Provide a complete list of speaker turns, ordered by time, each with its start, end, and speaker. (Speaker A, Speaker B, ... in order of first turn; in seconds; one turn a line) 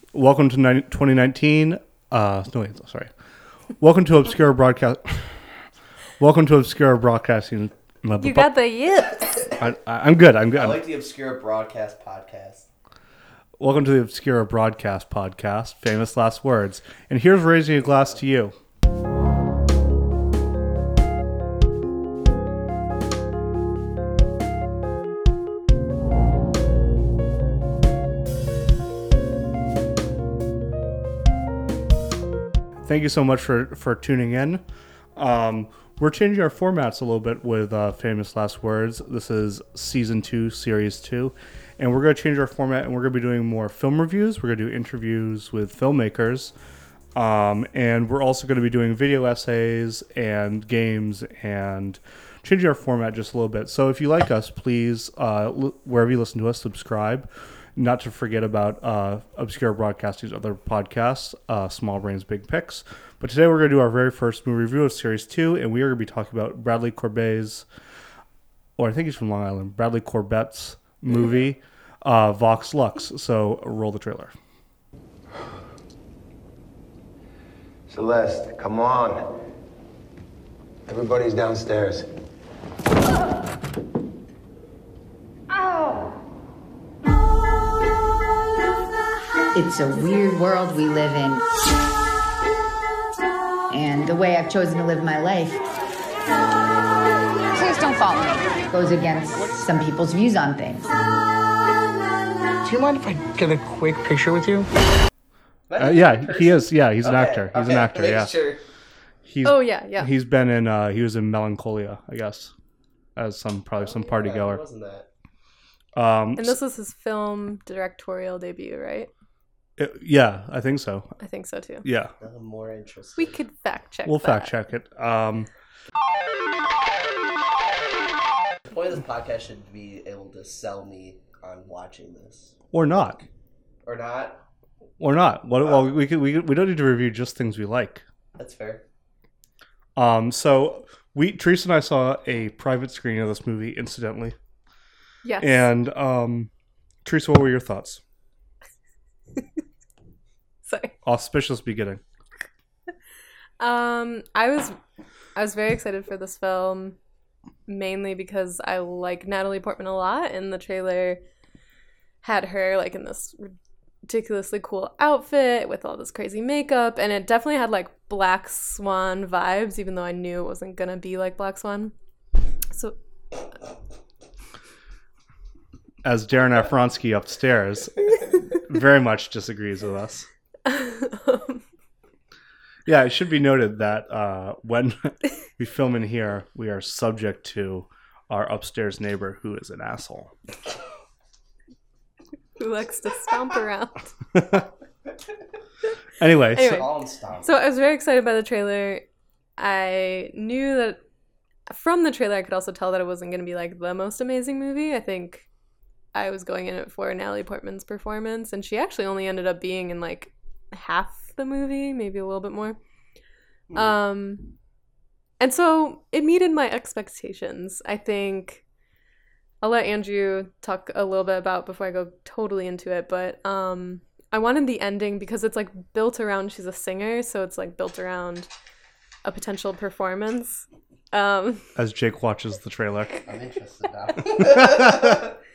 Speaker A: 0.1-3.1
Speaker A: 3.8-5.5
Speaker A: 6.2-8.5
Speaker B: 8.2-9.5
Speaker A: 9.5-10.8
Speaker C: 10.5-12.7
Speaker A: 13.6-18.5
Speaker C: 17.9-18.2
Speaker A: 32.9-34.6
Speaker A: 35.1-46.5
Speaker A: 47.2-67.7
Speaker A: 68.8-74.3
Speaker D: 77.9-79.2
Speaker D: 80.9-82.1
Speaker E: 89.5-91.4
Speaker E: 93.7-95.6
Speaker E: 97.5-100.8
Speaker F: 102.6-104.7
Speaker C: 105.7-108.6
Speaker A: 105.8-108.3
Speaker A: 109.2-112.5
Speaker B: 109.4-110.1
Speaker A: 113.2-114.6
Speaker C: 113.8-115.1
Speaker A: 116.0-116.6
Speaker B: 116.4-119.1
Speaker A: 119.8-121.1
Speaker B: 121.2-121.8
Speaker A: 121.8-122.1
Speaker C: 122.2-123.4
Speaker B: 123.2-124.5
Speaker A: 124.0-125.5
Speaker C: 128.7-132.6
Speaker A: 132.7-133.2
Speaker C: 133.8-134.4
Speaker A: 135.0-138.0
Speaker C: 138.4-138.8
Speaker A: 140.0-144.3
Speaker B: 145.2-145.7
Speaker A: 145.4-146.5
Speaker A: 147.1-148.0
Speaker B: 150.7-150.9
Speaker A: 151.1-152.0
Speaker B: 153.6-154.8
Speaker B: 155.3-157.0
Speaker B: 157.7-161.2
Speaker B: 162.2-163.6
Speaker B: 164.1-171.9
Speaker A: 176.0-180.3
Speaker B: 180.7-181.6
Speaker A: 182.9-190.3
Speaker B: 192.6-194.1
Speaker A: 194.3-194.7
Speaker A: 196.2-196.9
Speaker B: 196.5-199.1
Speaker C: 196.6-197.6
Speaker B: 199.6-201.0
Speaker B: 201.7-205.5
Speaker B: 206.2-212.8
Speaker B: 213.7-214.5
Speaker B: 215.4-218.6
Speaker B: 219.6-228.5
Speaker B: 229.2-231.7
Speaker A: 231.8-233.2
Speaker C: 233.3-235.2